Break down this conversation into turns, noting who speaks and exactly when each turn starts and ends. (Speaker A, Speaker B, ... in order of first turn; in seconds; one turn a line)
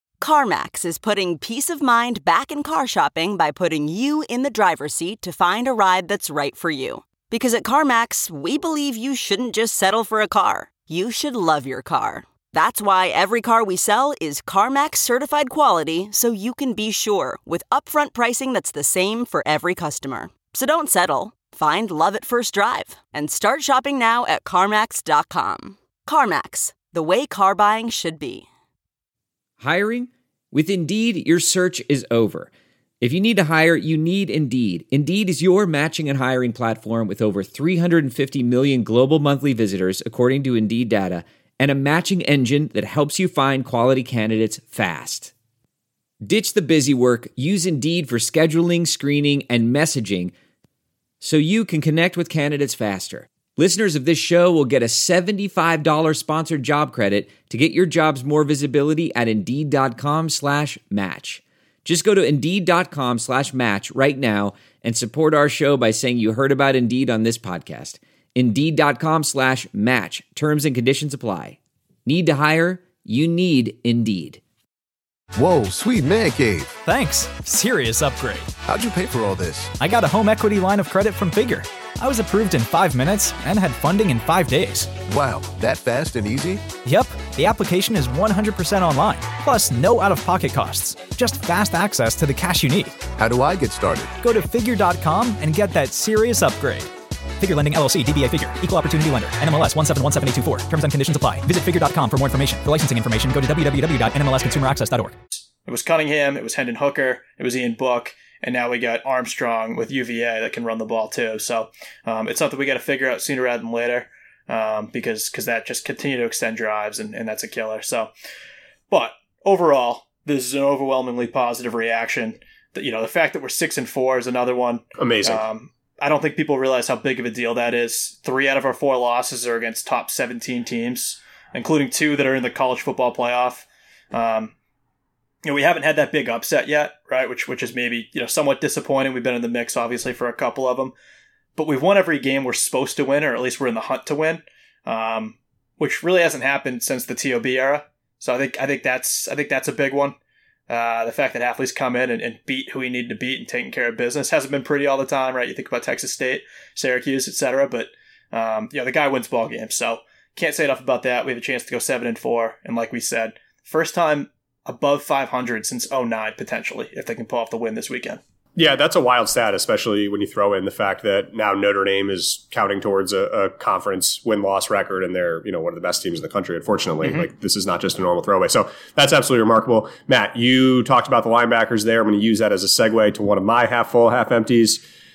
Speaker A: 0.2-28.5
Speaker B: 29.6-32.5
Speaker B: 33.0-45.3
Speaker B: 46.2-50.3
Speaker B: 51.2-74.4
Speaker C: 75.3-76.8
Speaker D: 76.8-78.5
Speaker C: 78.7-79.7
Speaker D: 79.8-85.0
Speaker C: 85.0-86.7
Speaker D: 86.8-93.1
Speaker C: 93.1-94.1
Speaker D: 94.2-96.9
Speaker D: 97.4-105.2
Speaker E: 105.5-118.1
Speaker E: 118.9-134.5
Speaker F: 125.0-125.5
Speaker E: 135.4-140.9
Speaker E: 141.6-150.2
Speaker E: 150.7-168.2
Speaker F: 168.6-184.8
Speaker E: 177.0-177.3